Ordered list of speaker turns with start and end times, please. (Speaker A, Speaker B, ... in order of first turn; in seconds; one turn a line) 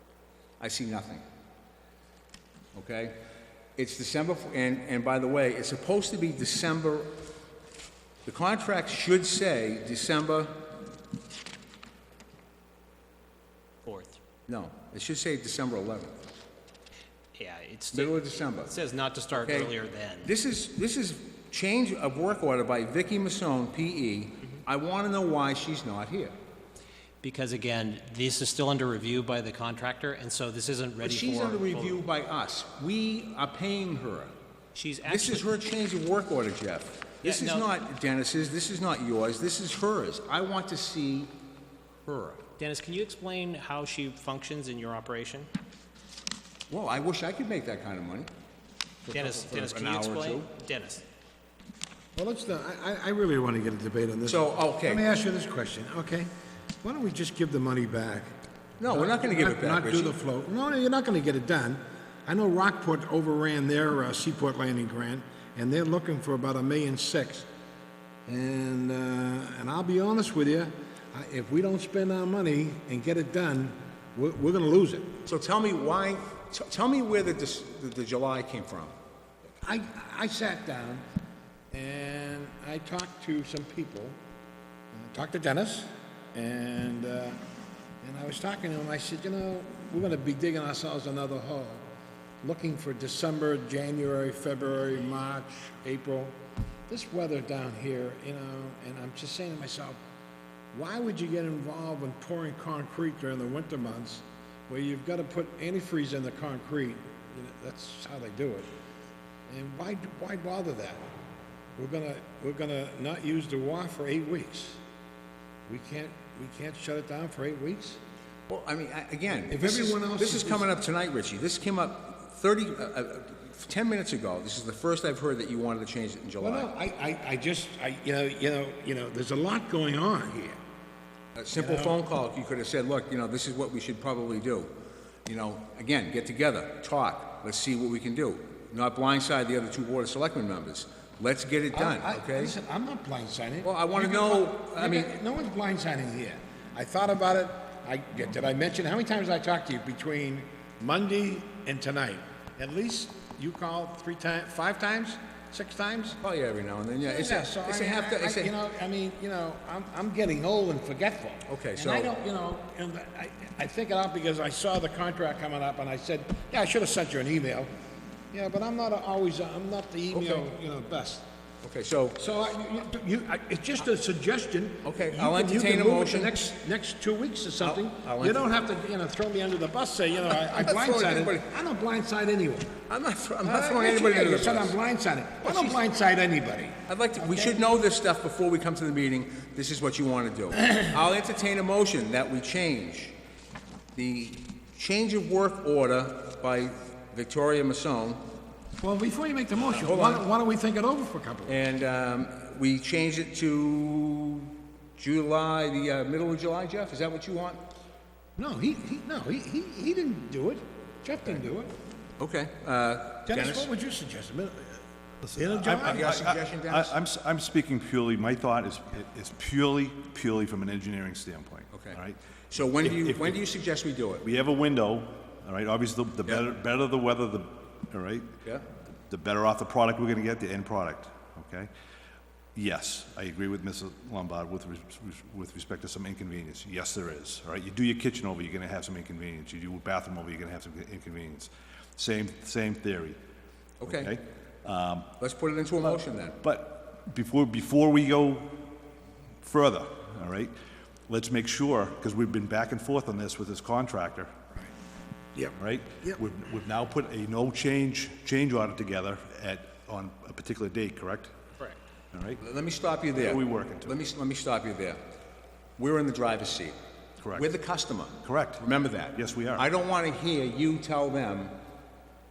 Speaker A: 0.6-1.2
Speaker A: 2.7-3.2
Speaker A: 3.8-7.2
Speaker A: 8.2-10.7
Speaker B: 13.8-14.2
Speaker A: 14.5-16.2
Speaker B: 17.4-20.3
Speaker A: 17.9-18.8
Speaker A: 19.3-26.4
Speaker B: 27.2-32.0
Speaker A: 31.0-34.3
Speaker B: 34.8-35.5
Speaker A: 35.1-41.3
Speaker B: 37.2-37.7
Speaker A: 42.0-42.5
Speaker B: 42.6-45.5
Speaker A: 46.7-48.3
Speaker A: 49.0-50.5
Speaker B: 49.1-51.0
Speaker C: 52.2-56.3
Speaker A: 54.3-55.0
Speaker C: 56.8-58.3
Speaker A: 58.8-60.2
Speaker C: 58.8-67.5
Speaker C: 68.3-75.2
Speaker A: 75.3-78.9
Speaker C: 79.6-81.0
Speaker C: 81.7-84.2
Speaker C: 84.9-87.4
Speaker C: 88.0-91.9
Speaker C: 92.4-96.4
Speaker C: 96.9-100.0
Speaker C: 100.7-108.7
Speaker C: 109.5-111.0
Speaker C: 111.8-114.8
Speaker C: 115.7-118.0
Speaker A: 118.5-126.7
Speaker C: 119.5-120.7
Speaker C: 126.4-130.6
Speaker A: 131.3-134.7
Speaker C: 131.6-132.0
Speaker A: 135.2-142.6
Speaker C: 141.7-156.2
Speaker A: 143.6-145.2
Speaker A: 156.2-158.5
Speaker C: 157.0-167.7
Speaker A: 161.5-162.1
Speaker C: 168.3-171.2
Speaker A: 170.1-170.5
Speaker A: 171.6-172.2
Speaker C: 172.2-182.8
Speaker A: 174.8-176.4
Speaker A: 177.6-178.5
Speaker A: 180.2-181.5
Speaker A: 182.9-184.8
Speaker C: 183.4-187.6
Speaker A: 185.4-185.8
Speaker A: 186.9-193.2
Speaker A: 193.9-198.2
Speaker C: 198.8-201.6
Speaker A: 199.6-200.3
Speaker A: 201.5-207.6
Speaker C: 208.4-211.7
Speaker A: 212.2-213.7
Speaker C: 213.3-214.8
Speaker D: 215.2-223.4
Speaker C: 215.4-216.1
Speaker A: 215.7-217.0
Speaker A: 221.7-222.0
Speaker A: 222.5-224.2
Speaker D: 224.2-228.4
Speaker D: 229.1-231.7
Speaker D: 232.6-243.2
Speaker A: 243.8-244.1
Speaker D: 243.9-245.2
Speaker A: 245.2-246.4
Speaker D: 246.4-248.7
Speaker D: 249.4-250.6
Speaker D: 251.1-254.3
Speaker C: 255.3-256.2
Speaker D: 255.6-261.3
Speaker D: 262.1-262.4
Speaker A: 262.4-265.0
Speaker D: 263.1-264.0
Speaker A: 265.8-266.8
Speaker D: 267.2-267.5
Speaker A: 267.3-271.6
Speaker D: 268.2-268.6
Speaker D: 269.1-269.6